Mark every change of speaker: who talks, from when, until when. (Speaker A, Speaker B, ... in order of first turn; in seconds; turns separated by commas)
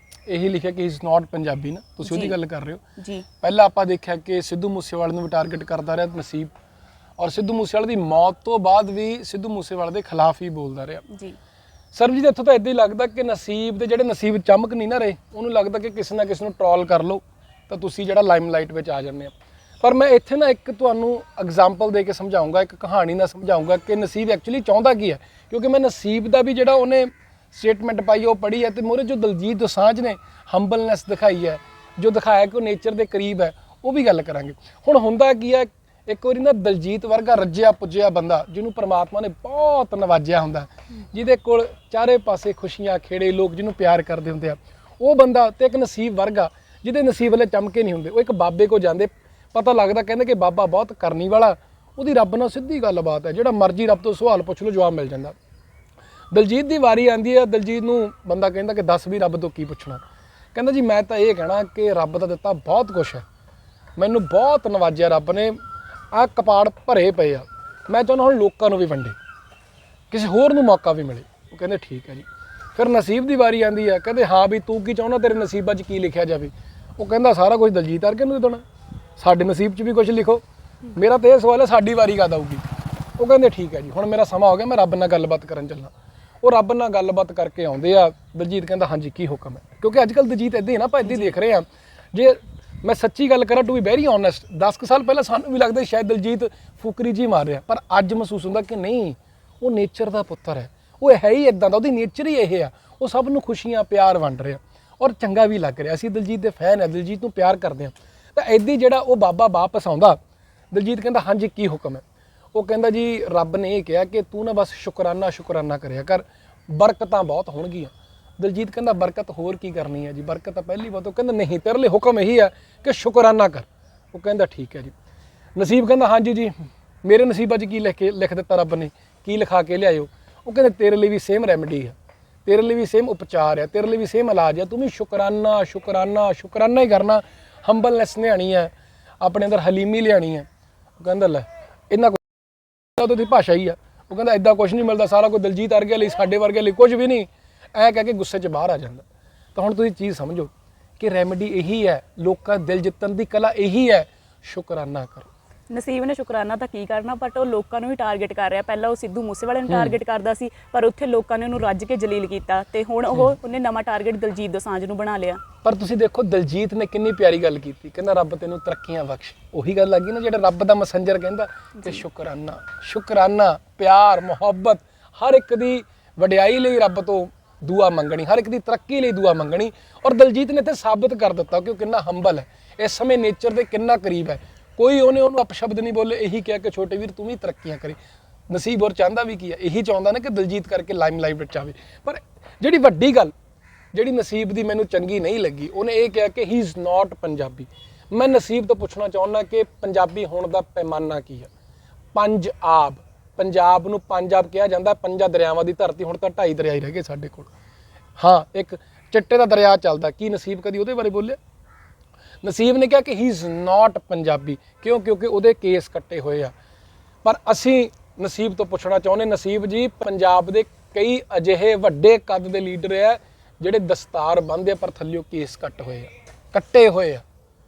Speaker A: 0.3-2.8, Speaker B: 2.0-2.4, Speaker B: 3.0-3.3, Speaker A: 3.4-6.5, Speaker A: 7.2-11.0, Speaker B: 11.1-11.4, Speaker A: 11.9-55.4, Speaker A: 56.3-60.0, Speaker A: 60.5-63.2, Speaker A: 64.0-65.6, Speaker A: 66.1-69.2, Speaker A: 70.1-78.6, Speaker A: 79.2-80.4, Speaker A: 81.0-82.6, Speaker A: 83.2-110.2, Speaker B: 91.1-91.4, Speaker A: 110.7-112.0, Speaker A: 112.5-124.9, Speaker A: 125.5-140.5, Speaker A: 141.0-142.3, Speaker A: 142.9-155.3, Speaker B: 155.7-165.4, Speaker A: 165.6-188.0, Speaker A: 188.5-193.3, Speaker A: 193.9-201.5, Speaker A: 202.1-207.5, Speaker A: 208.2-211.4, Speaker A: 212.4-216.5, Speaker A: 217.2-227.2